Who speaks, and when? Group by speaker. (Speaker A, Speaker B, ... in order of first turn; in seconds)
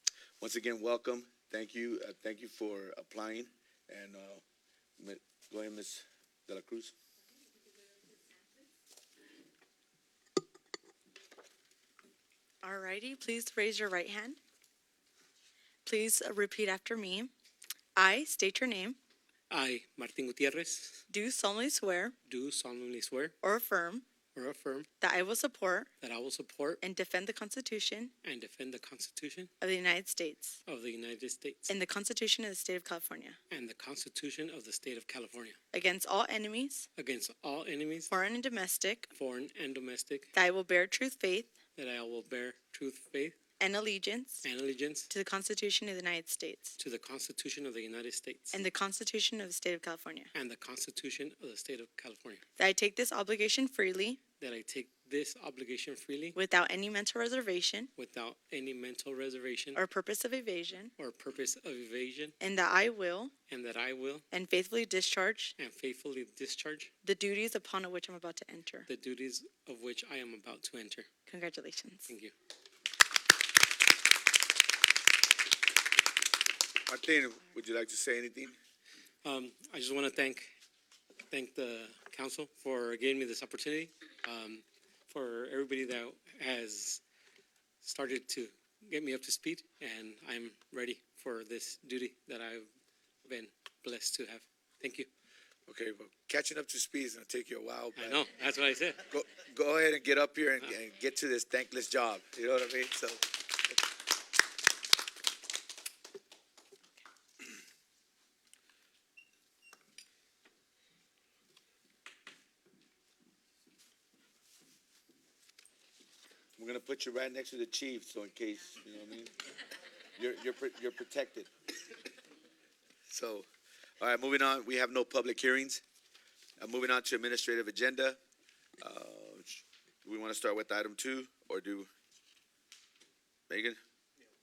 Speaker A: 0.4-4.4, 5.0-6.9, 76.9-78.6, 95.7-98.2, 99.1-103.2, 116.6-119.3, 120.2-121.5, 123.1-123.5, 124.0-125.8, 126.6-128.2, 128.8-131.9, 133.5-133.8
Speaker B: 12.6-14.4, 15.9-17.3, 18.0-19.0, 21.1-22.1, 23.4-24.1, 25.0-25.9, 26.8-28.1, 29.6-30.6, 31.7-33.4, 35.7-36.9, 38.1-39.1, 40.3-41.5, 43.6-44.5, 45.1-46.8, 48.5-50.3, 52.6-54.2, 56.4-57.9, 59.8-60.9, 62.4-63.3, 64.3-65.5, 67.0-68.9, 71.3-72.1
Speaker C: 19.5-21.1, 22.3-23.4, 24.3-24.9, 26.0-26.8, 28.2-29.5, 30.7-31.7, 33.5-35.6, 37.0-38.1, 39.1-40.3, 41.8-43.4, 44.4-45.1, 46.8-48.6, 50.3-52.4, 54.4-56.4, 58.0-59.8, 61.0-62.4, 63.5-64.2, 65.6-66.9, 68.9-71.1, 72.1-72.3, 79.2-80.5, 81.3-87.0, 87.8-92.7, 93.2-95.1, 98.0-99.0